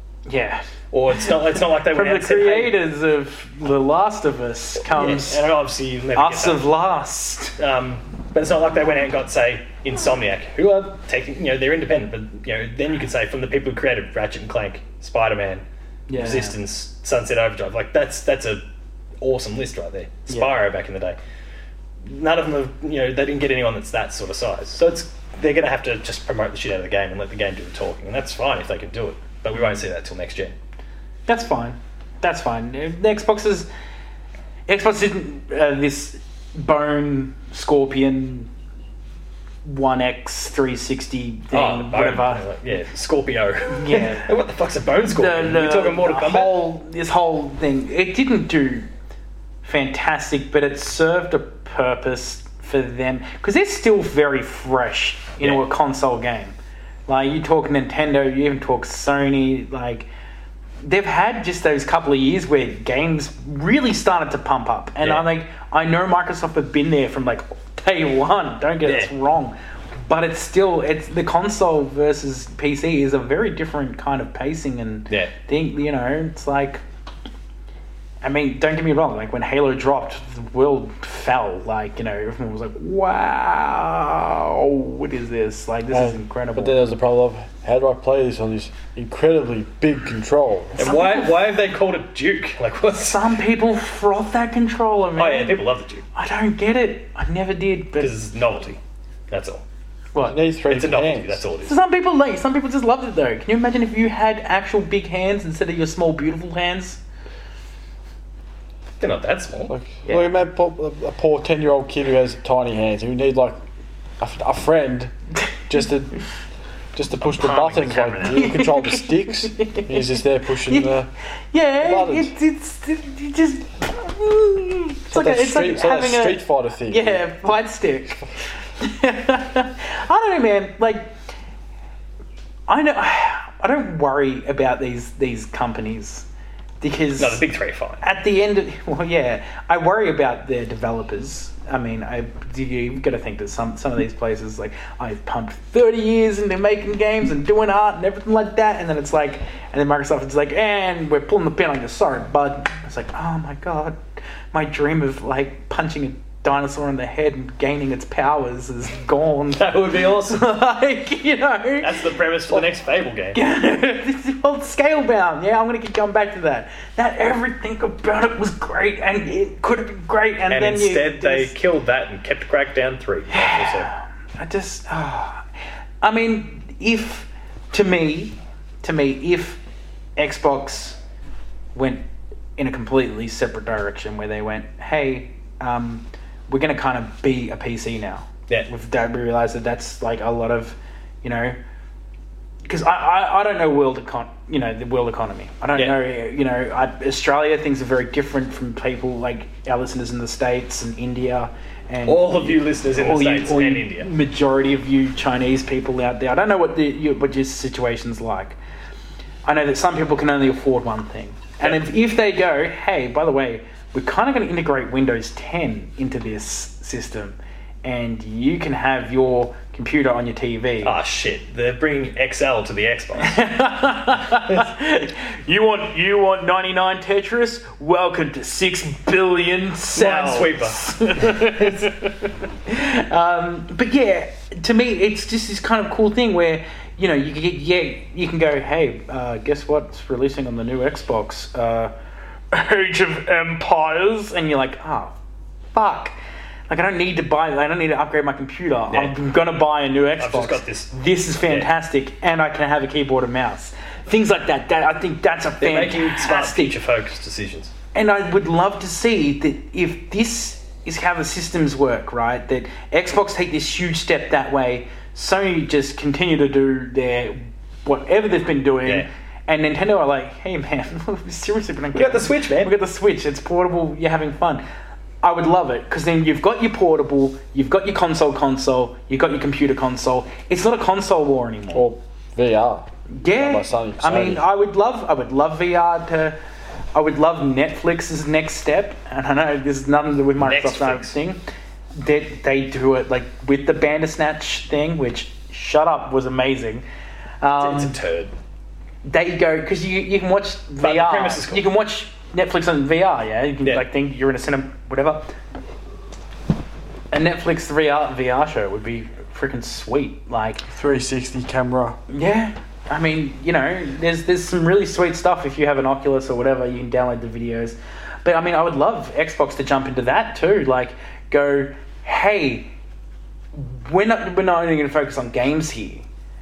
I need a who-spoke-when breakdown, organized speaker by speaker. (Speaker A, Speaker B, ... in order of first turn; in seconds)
Speaker A: 0.3-5.4, 6.2-7.6, 16.1-16.6, 20.3-20.5, 31.3-33.7, 34.7-38.5, 39.6-42.4, 43.7-44.3, 45.1-48.9, 49.6-56.5, 57.1-60.1, 60.8-76.8, 78.2-86.8, 90.8-91.5, 92.9-95.6, 96.2-98.1, 101.6-107.0, 110.1-110.3, 118.3-120.9, 121.5-128.3, 128.8-131.2, 132.7-136.3, 136.8-137.4, 138.0-154.0, 154.5-162.6, 163.3-171.6, 173.3-175.5, 176.0-179.6, 180.2-181.0, 181.7-182.1, 182.6-191.6, 192.7-208.6, 209.4-220.9, 223.2-241.9, 242.5-245.2, 245.7-246.2, 246.7-256.8, 257.9-274.6, 275.2-281.9, 283.1-286.4, 286.9-291.4, 291.9-296.9, 297.4-298.0, 299.0-305.3, 307.1-310.6, 312.1-322.7, 323.5-326.1
Speaker B: 0.9-2.8, 4.9-6.7, 7.6-15.6, 16.2-18.6, 19.2-21.2, 22.0-30.6, 41.5-46.6, 65.0-65.3, 68.8-69.1, 90.8-93.2, 95.2-96.0, 98.0-99.6, 100.7-101.7, 109.0-109.7, 117.2-118.6, 137.2-138.0, 159.6-160.5, 161.8-163.4, 170.5-173.9, 195.7-196.0, 202.1-204.1, 211.6-211.9, 220.8-223.4, 229.9-231.9, 250.2-251.7, 255.6-257.7, 271.9-272.8, 290.4-291.1, 297.6-298.3, 300.8-301.7
Speaker C: 85.9-90.8, 100.2-101.4, 109.7-113.6, 114.2-115.1, 115.7-116.2, 117.0-121.1, 121.8-122.3, 125.1-127.2, 281.7-284.4, 310.7-312.0